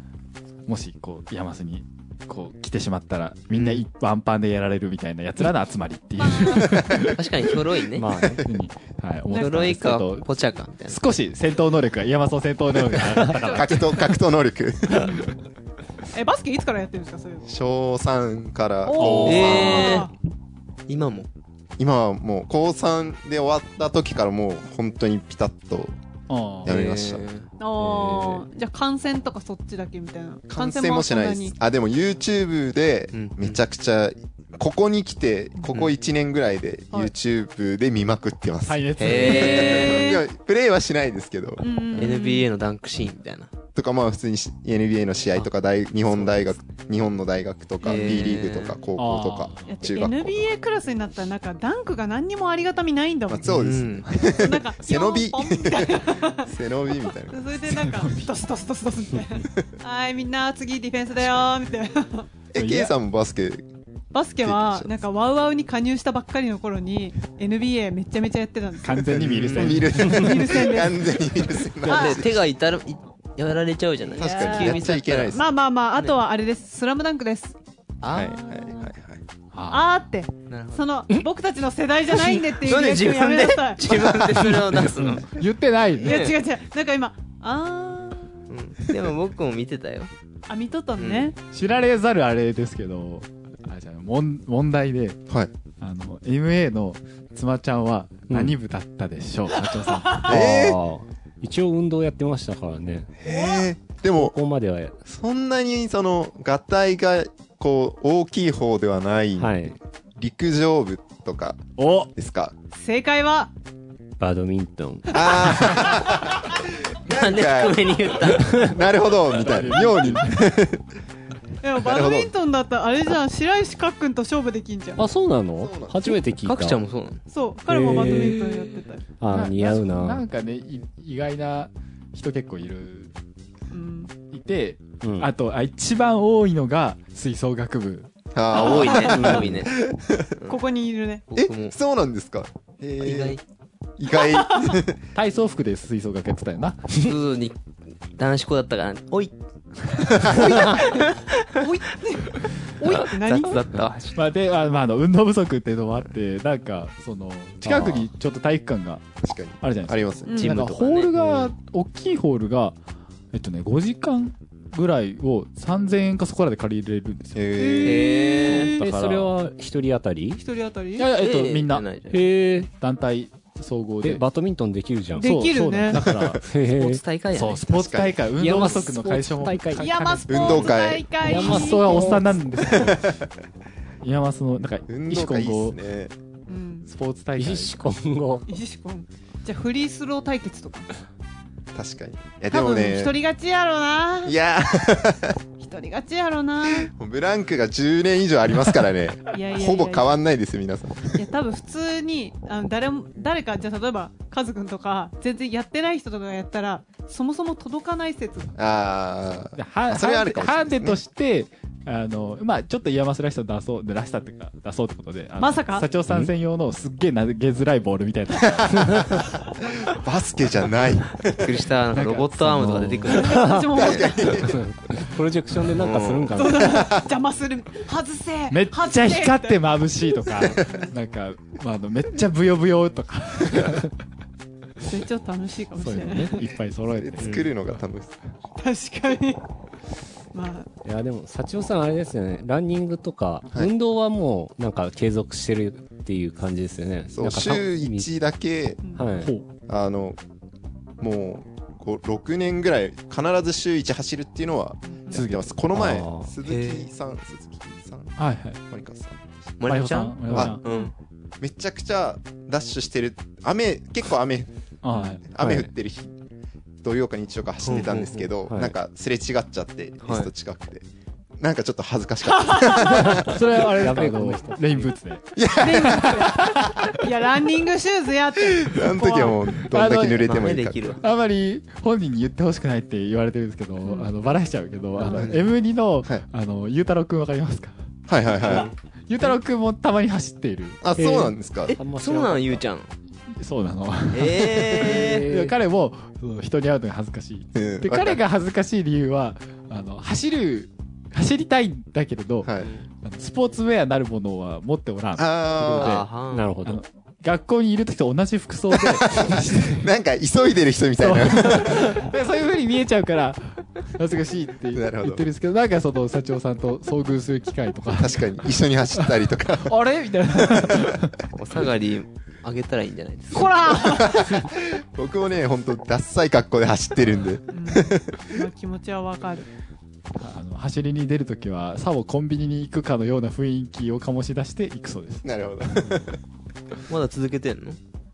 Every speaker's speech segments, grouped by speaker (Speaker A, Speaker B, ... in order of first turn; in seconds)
Speaker A: 0.7-7.3, 8.4-10.3, 10.9-14.1, 19.0-19.8, 26.3-26.7, 38.7-40.1, 49.0-49.8, 57.9-58.3, 62.6-62.9, 68.8-70.3, 79.5-79.9, 84.6-86.3, 91.5-95.2, 95.8-100.4, 111.8-112.1, 119.3-120.5, 129.3-133.1, 134.3-138.1, 145.2-147.0, 154.2-159.0, 159.6-162.8, 163.3-167.5, 168.7-169.3, 171.0-171.9, 172.7-174.2, 175.2-176.4, 177.3-183.2, 184.0-185.8, 186.9-187.9, 209.6-219.3, 221.9-223.2, 228.5-233.9, 235.8-237.8, 249.2-249.4, 255.1-255.5, 258.2-258.6, 259.7-260.6, 264.8-265.3, 273.1-277.1, 279.6-280.5, 281.0-287.8, 289.1-290.8, 293.4-302.5, 303.0-306.1, 306.6-309.9, 311.0-318.2, 319.0-321.1, 330.2-336.0
Speaker B: 3.5-3.8, 7.0-8.1, 9.3-11.0, 19.3-20.1, 20.9-21.3, 26.6-27.5, 33.1-33.6, 39.0-40.2, 42.0-43.5, 46.2-46.5, 47.8-48.8, 53.5-54.1, 69.3-69.8, 71.8-75.4, 78.0-78.7, 80.5-80.8, 82.1-85.4, 86.0-86.4, 88.5-90.1, 91.0-91.3, 117.1-118.8, 126.4-127.2, 128.1-128.7, 138.5-139.8, 141.3-141.8, 143.0-143.4, 147.0-147.6, 148.1-149.3, 150.0-151.1, 152.9-154.2, 160.3-161.1, 167.8-168.8, 171.2-172.2, 176.5-177.8, 221.3-223.6, 225.8-226.6, 237.2-237.5, 256.4-256.9, 259.6-260.9, 267.6-268.1, 270.0-270.3, 280.2-281.0, 285.1-285.4, 288.4-288.7, 291.7-292.9, 294.1-295.3, 305.6-306.6, 321.4-323.6, 336.9-337.8
Speaker C: 6.2-6.8, 13.4-13.8, 16.1-17.4, 18.9-20.1, 27.6-31.5, 39.8-40.2, 41.6-42.5, 49.6-53.5, 54.1-56.5, 57.1-62.3, 64.1-69.0, 70.0-71.2, 71.8-72.2, 74.2-77.5, 79.7-83.8, 86.0-88.2, 90.5-91.4, 103.3-103.7, 112.8-113.5, 121.6-125.0, 127.3-129.0, 133.7-134.1, 138.7-139.3, 140.5-141.2, 144.5-144.8, 150.2-153.6, 160.3-160.6, 167.6-168.9, 170.4-171.1, 175.2-176.0, 179.8-182.2, 186.5-186.9, 188.5-190.9, 192.5-194.4, 195.6-196.9, 199.3-200.1, 201.2-208.5, 215.4-215.9, 223.1-224.5, 226.3-229.7, 230.3-230.8, 234.8-236.4, 238.6-239.4, 240.3-240.7, 254.9-255.2, 260.6-260.9, 272.3-273.1, 275.6-279.5, 323.3-324.2, 327.5-329.5
Speaker D: 6.7-7.1, 13.5-15.2, 17.5-20.0, 21.8-25.9, 26.6-27.3, 30.5-41.6, 43.8-50.2, 53.3-57.4, 62.5-63.7, 64.4-64.9, 69.1-72.4, 74.2-75.4, 78.1-79.2, 100.2-100.8, 103.2-104.3, 105.0-109.7, 110.2-112.5, 115.1-120.8, 121.8-122.3, 125.6-126.2, 138.3-140.3, 141.3-143.4, 144.0-145.0, 159.2-160.6, 167.3-168.2, 177.8-178.2, 180.3-181.1, 182.6-183.2, 184.9-186.1, 191.7-193.2, 194.2-195.4, 196.6-201.2, 208.6-211.0, 218.6-219.0, 219.8-221.6, 223.7-224.6, 236.9-238.2, 247.1-248.8, 249.7-250.2, 251.0-258.1, 258.7-259.2, 261.4-264.5, 265.3-266.1, 266.8-270.9, 271.4-273.7, 275.4-276.6, 278.6-281.0, 288.1-288.7, 290.8-291.8, 297.6-298.2, 302.4-302.7, 305.2-306.1, 308.8-312.0, 314.7-315.2, 318.0-319.8, 320.4-321.0, 323.8-328.2, 335.2-336.2
Speaker E: 7.9-8.5, 19.1-19.9, 27.8-28.4, 98.3-98.6, 100.2-103.1, 104.1-104.9, 109.4-109.8, 114.2-115.3, 125.0-126.8, 127.7-128.4, 129.2-130.2, 135.0-135.3, 139.1-139.7, 168.8-170.4, 172.1-172.7, 174.0-175.3, 176.4-177.0, 178.4-179.9, 181.2-182.3, 187.4-188.5, 223.1-226.9, 240.8-248.1, 248.9-249.3, 255.7-256.3, 265.4-265.7, 267.8-268.8, 273.1-274.9, 285.0-285.3, 290.9-292.6, 294.7-295.6, 306.3-306.8